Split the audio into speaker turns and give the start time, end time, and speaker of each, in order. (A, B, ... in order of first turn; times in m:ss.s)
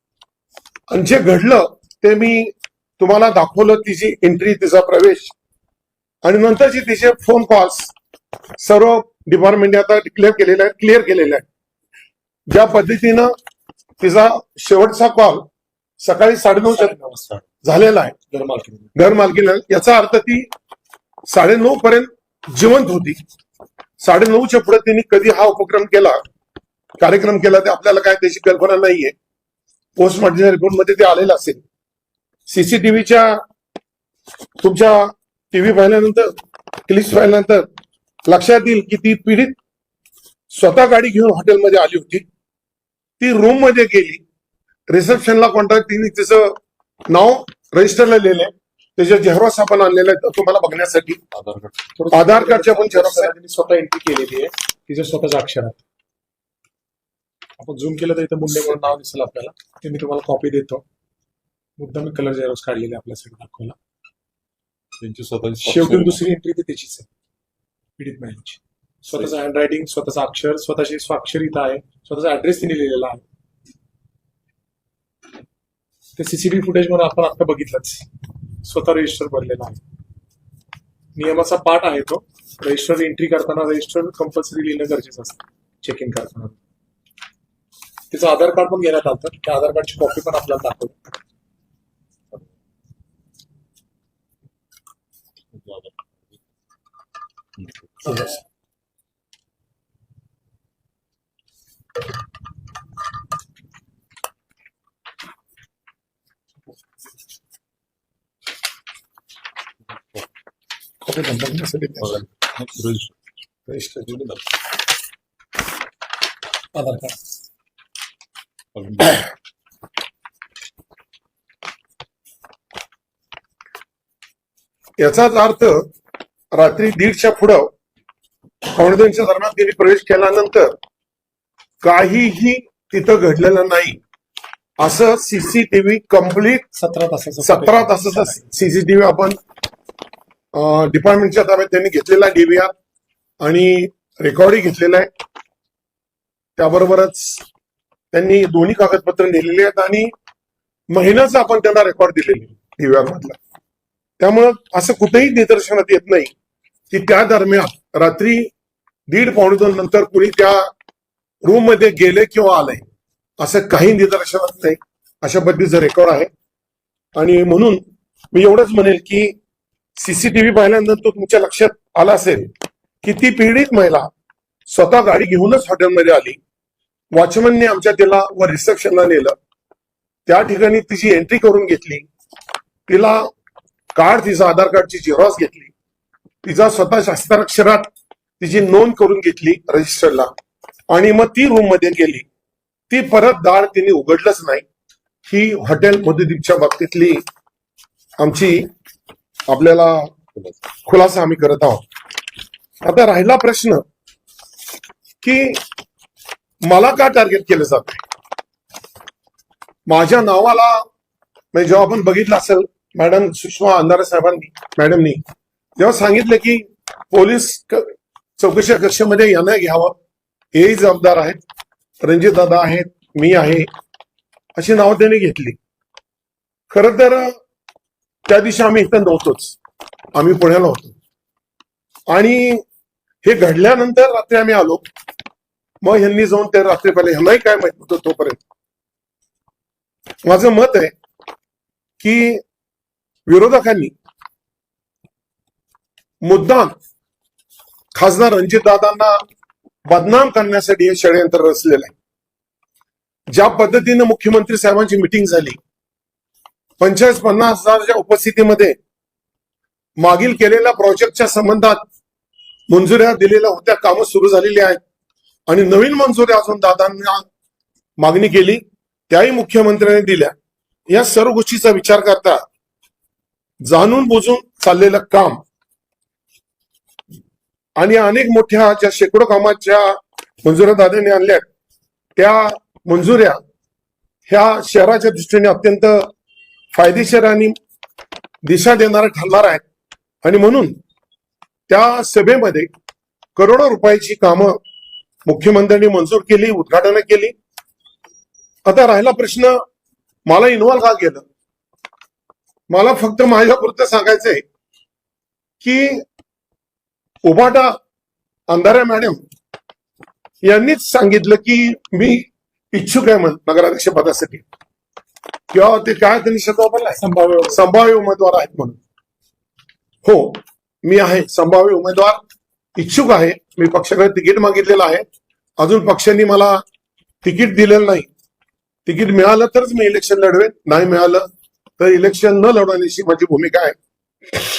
0:00.9-0:05.3 A
0:06.2-0:07.9 A
0:08.6-0:11.4 A
0:12.5-0:13.3 A
0:14.0-0:15.5 A
0:16.0-0:17.0 A
0:16.6-0:17.4 B
0:17.6-0:18.2 A
0:18.3-0:19.0 B
0:19.0-0:20.5 A
0:21.3-0:23.2 A
0:24.0-0:26.2 A
0:27.0-0:29.1 A
0:30.0-0:31.6 A
0:32.5-0:33.4 A
0:34.6-0:36.4 A
0:36.9-0:37.7 A
0:38.3-0:39.6 A
0:40.5-0:42.3 A
0:43.2-0:44.2 A
0:44.9-0:51.2 A
0:52.0-0:55.8 B
0:52.1-0:53.3 A
0:57.6-1:00.8 B
1:01.8-1:03.8 B
1:05.0-1:06.2 C
1:05.6-1:07.1 B
1:08.0-1:13.2 B
1:16.2-1:18.1 B
1:18.6-1:19.8 B
1:21.2-1:26.6 B
1:28.1-1:31.0 B
1:35.6-1:35.9 C
1:38.0-1:38.4 B
1:51.0-1:52.3 A
1:52.1-1:53.1 C
1:53.7-1:54.2 A
1:56.8-1:57.2 B
1:58.8-1:59.3 C
2:05.0-2:05.9 A
2:06.5-2:07.7 A
2:08.7-2:10.7 A
2:11.8-2:14.0 A
2:14.8-2:16.7 A
2:16.7-2:18.4 B
2:17.4-2:19.4 A
2:20.5-2:22.7 A
2:23.4-2:25.1 A
2:26.6-2:27.4 A
2:28.1-2:30.1 A
2:30.9-2:33.4 A
2:34.2-2:36.3 A
2:36.9-2:38.5 A
2:39.1-2:40.7 A
2:41.4-2:42.8 A
2:43.4-2:46.3 A
2:47.2-2:47.8 A
2:48.3-2:49.4 A
2:50.0-2:52.5 A
2:53.0-2:54.1 A
2:54.7-2:56.4 A
2:57.1-2:59.4 A
3:00.3-3:02.1 A
3:02.9-3:03.3 A
3:04.0-3:05.7 A
3:06.4-3:10.3 A
3:10.9-3:12.3 A
3:12.9-3:14.6 A
3:15.3-3:17.2 A
3:18.2-3:18.7 A
3:19.5-3:20.2 A
3:20.8-3:21.8 A
3:22.8-3:23.8 A
3:25.2-3:25.6 A
3:26.6-3:28.0 A
3:29.9-3:30.9 A
3:31.5-3:35.2 A
3:35.8-3:40.0 A
3:40.5-3:41.4 A
3:42.0-3:43.7 A
3:44.6-3:45.6 A
3:46.7-3:47.3 A
3:48.3-3:49.6 A
3:50.2-3:51.0 A
3:52.1-3:52.6 A
3:53.2-3:54.8 A
3:55.8-3:58.4 A
4:00.2-4:00.9 A
4:02.0-4:02.4 A
4:03.3-4:03.9 A
4:06.2-4:06.7 A
4:08.0-4:09.2 A
4:09.9-4:11.9 A
4:13.3-4:15.6 A
4:16.8-4:18.8 A
4:20.0-4:21.8 A
4:22.7-4:24.8 A
4:25.5-4:27.3 A
4:28.0-4:30.3 A
4:30.9-4:32.4 A
4:33.6-4:35.4 A
4:37.8-4:41.5 A
4:42.2-4:43.4 A
4:44.3-4:46.1 A
4:46.7-4:47.6 A
4:48.4-4:49.6 A
4:50.2-4:50.8 A
4:51.7-4:52.7 A
4:53.4-4:54.6 A
4:55.3-4:57.4 A
4:58.7-4:59.6 A
5:00.3-5:01.2 A
5:02.7-5:04.4 A
5:05.6-5:06.0 A
5:07.2-5:07.8 A
5:08.5-5:09.2 A
5:10.5-5:14.4 A
5:15.5-5:18.8 A
5:17.0-5:17.6 B
5:20.0-5:22.2 A
5:22.8-5:25.0 A
5:25.6-5:26.6 A
5:27.2-5:28.1 A
5:28.9-5:33.8 A